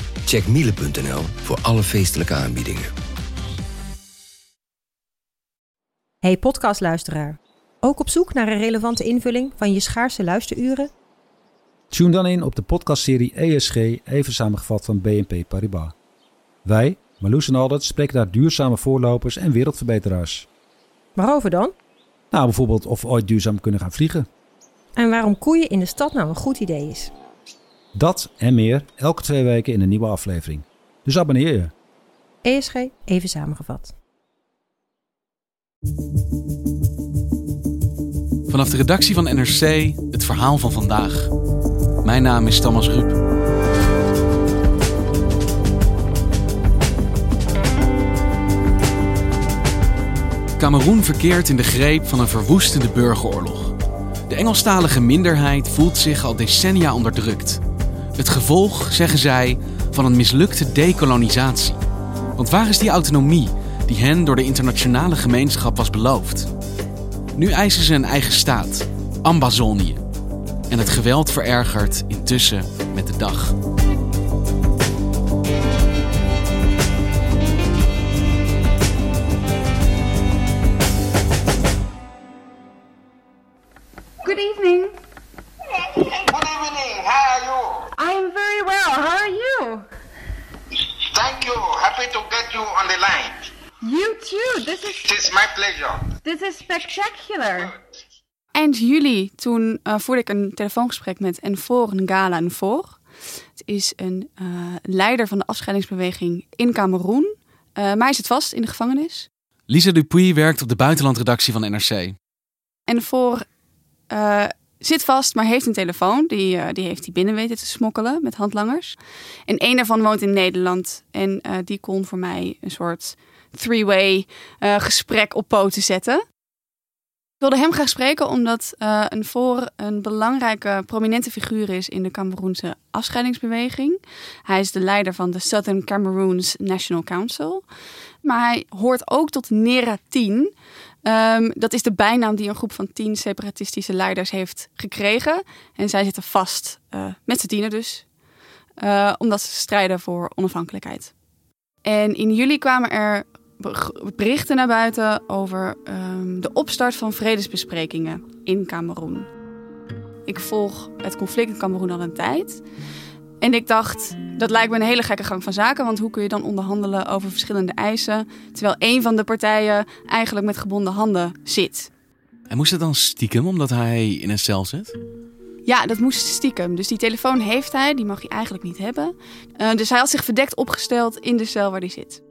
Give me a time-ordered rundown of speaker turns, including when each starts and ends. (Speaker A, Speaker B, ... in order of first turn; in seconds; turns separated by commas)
Speaker A: 0.3-2.9, Speaker B: 6.2-10.9, Speaker C: 11.9-15.9, Speaker C: 16.6-20.4, Speaker B: 21.2-21.8, Speaker C: 22.3-24.3, Speaker B: 25.0-27.1, Speaker C: 28.0-31.7, Speaker B: 32.4-33.9, Speaker D: 38.5-41.3, Speaker D: 42.0-43.2, Speaker D: 50.6-53.8, Speaker D: 54.3-57.6, Speaker D: 58.2-61.8, Speaker D: 62.4-66.5, Speaker D: 67.4-70.0, Speaker D: 70.7-73.5, Speaker E: 84.2-85.0, Speaker F: 86.3-87.8, Speaker E: 88.0-89.8, Speaker F: 91.1-93.3, Speaker E: 93.8-95.2, Speaker F: 95.0-96.1, Speaker E: 96.2-97.7, Speaker G: 98.5-103.0, Speaker G: 103.6-109.3, Speaker D: 109.7-112.2, Speaker G: 112.9-113.4, Speaker G: 114.1-119.0, Speaker G: 119.5-126.2, Speaker G: 127.4-137.7, Speaker G: 138.2-140.5, Speaker G: 141.1-148.1, Speaker G: 148.8-151.1, Speaker G: 151.8-159.3, Speaker G: 160.3-162.6, Speaker G: 163.4-171.9, Speaker D: 172.5-174.9, Speaker G: 175.7-182.2